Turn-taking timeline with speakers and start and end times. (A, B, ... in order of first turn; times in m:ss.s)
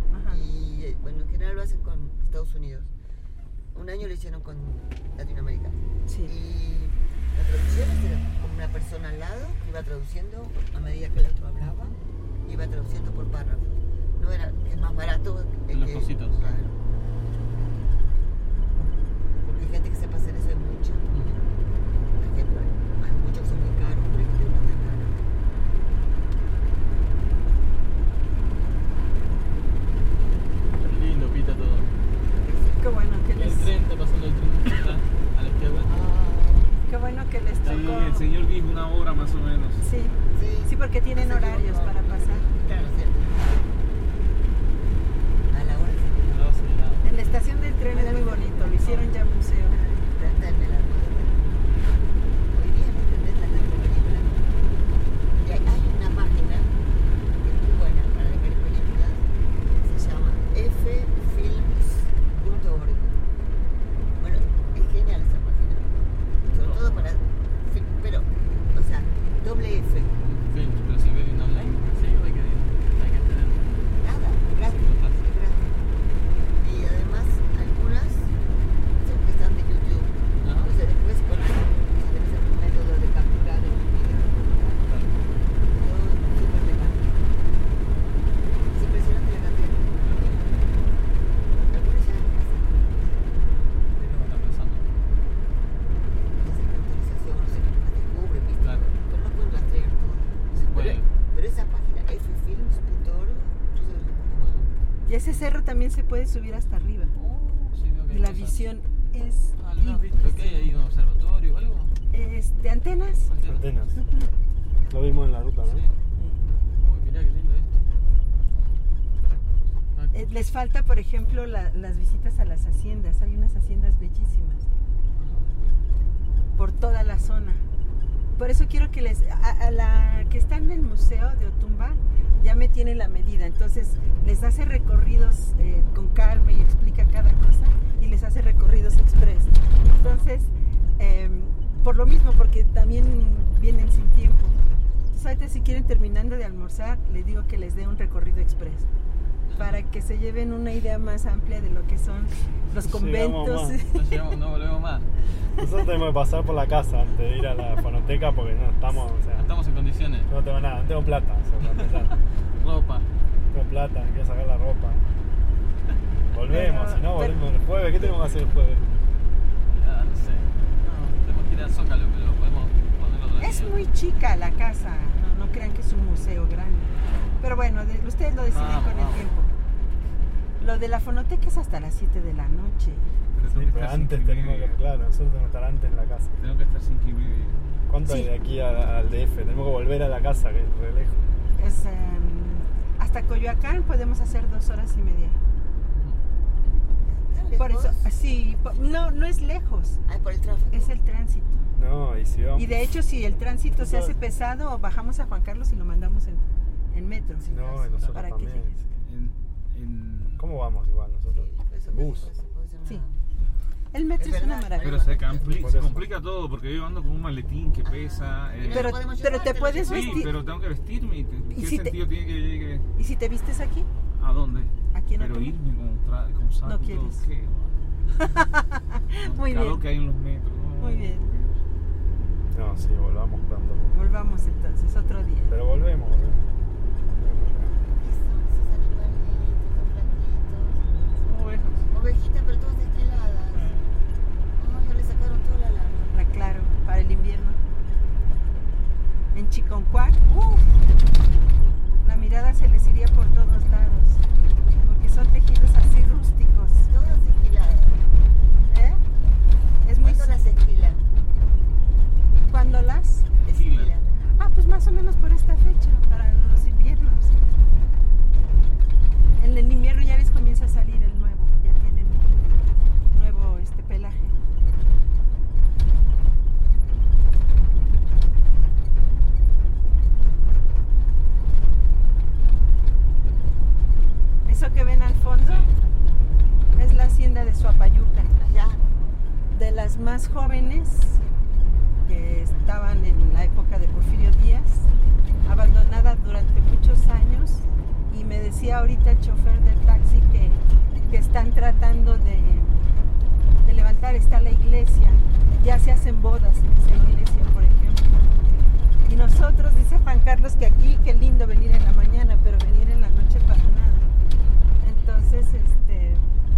0:00.1-0:00.4 A
0:00.3-0:02.9 B
0:03.7-0:16.8 B
0:06.1-0:06.3 A
0:15.7-0:16.4 C
0:19.4-0:21.1 B
0:21.1-0:21.4 C
0:22.2-0:25.2 B
0:30.8-0:31.9 C
0:32.8-0:33.7 A
0:33.4-0:36.0 C
0:35.8-0:36.7 B
0:36.9-0:38.2 A
0:37.6-0:38.2 C
0:37.6-0:39.8 D
0:39.8-0:42.5 A
0:40.3-0:43.6 B
0:45.5-0:46.2 B
0:46.2-0:47.0 C
0:47.0-0:49.9 A
0:47.9-0:49.0 B
0:50.1-0:51.4 B
0:52.5-0:54.4 B
0:55.4-0:56.7 B
0:57.4-0:59.3 B
0:59.8-1:03.2 B
1:04.2-1:10.2 B
1:06.4-1:07.1 C
1:10.2-1:13.6 C
1:14.0-1:15.8 B
1:14.8-1:15.2 C
1:16.6-1:18.3 B
1:19.0-1:27.3 B
1:20.4-1:20.8 C
1:24.9-1:25.2 C
1:28.7-1:30.5 B
1:30.0-1:30.4 C
1:31.7-1:32.7 B
1:34.0-1:34.3 B
1:34.1-1:34.9 C
1:36.3-1:44.7 B
1:38.6-1:38.9 C
1:40.5-1:41.1 C
1:45.0-1:47.1 A
1:47.2-1:48.6 C
1:48.1-1:50.7 A
1:49.6-1:51.9 C
1:52.1-1:53.3 A
1:53.3-1:53.8 C
1:53.4-1:54.0 E
1:53.9-1:54.3 A
1:54.9-1:55.9 E
1:55.6-1:55.9 C
1:56.2-1:56.5 A
1:56.8-1:57.8 C
1:59.9-2:00.3 C
2:00.1-2:04.7 A
2:05.2-2:05.5 C
2:06.6-2:07.6 A
2:08.4-2:24.6 A
2:19.9-2:20.3 B
2:25.1-2:28.9 A
2:29.5-2:29.7 C
2:29.6-2:34.2 A
2:32.8-2:33.8 E
2:33.9-2:35.1 C
2:35.6-2:39.5 E
2:39.3-2:40.3 C
2:40.3-2:42.2 E
2:41.6-2:42.0 C
2:42.6-2:43.1 C
2:43.5-2:45.0 E
2:46.3-2:48.9 E
2:46.5-2:47.4 A
2:49.7-2:53.7 C
2:53.4-2:59.5 A
2:58.5-2:59.2 C
3:00.6-3:03.1 A
3:03.3-3:04.8 D
3:03.4-3:06.3 E
3:06.4-3:07.6 D
3:07.9-3:11.2 E
3:08.0-3:08.3 A
3:11.6-3:15.4 A
3:15.9-3:16.2 C
3:17.3-3:18.1 B
3:17.6-3:20.0 A
3:18.7-3:19.0 B
3:20.0-3:20.9 B
3:20.7-3:21.7 A
3:21.8-3:22.8 E
3:22.6-3:27.5 A
3:23.8-3:24.1 E
3:27.4-3:28.1 B
3:27.5-3:28.9 E
3:28.0-3:28.7 A
3:29.0-3:30.5 D
3:30.4-3:32.3 E
3:31.3-3:33.2 B
3:33.9-3:35.0 A
3:34.2-3:35.7 B
3:34.8-3:42.8 D
3:35.5-3:36.1 E
3:37.8-3:40.3 B
3:38.7-3:40.3 A
3:41.5-3:42.0 A
3:43.0-3:43.9 A
3:44.1-3:47.8 D
3:44.9-3:45.6 A
3:46.6-3:47.2 A
3:48.2-3:49.8 A
3:49.2-3:51.6 D
3:50.8-3:51.3 A
3:52.5-3:54.0 E
3:53.9-3:55.5 A
3:55.5-3:56.4 E
3:57.2-3:57.8 E
3:57.9-4:00.9 B
4:01.2-4:01.9 C
4:01.9-4:03.8 B
4:03.5-4:03.8 C
4:04.6-4:06.1 B
4:06.1-4:07.6 A
4:09.3-4:10.8 A
4:12.0-4:14.2 A
4:14.8-4:16.9 A
4:16.9-4:18.0 B
4:18.6-4:19.0 A
4:19.8-4:20.4 A
4:20.0-4:21.0 B
4:22.5-4:23.3 A
4:23.4-4:24.0 D
4:23.4-4:24.1 B
4:24.4-4:27.3 A
4:29.4-4:32.2 A
4:33.1-4:34.4 A
4:44.4-4:45.7 A
4:46.8-4:48.3 A
4:48.4-4:48.8 B
4:49.5-4:51.2 A
4:52.0-4:54.9 A
4:55.4-5:02.9 A
5:03.6-5:08.2 A
5:09.0-5:14.1 A
5:14.8-5:16.3 A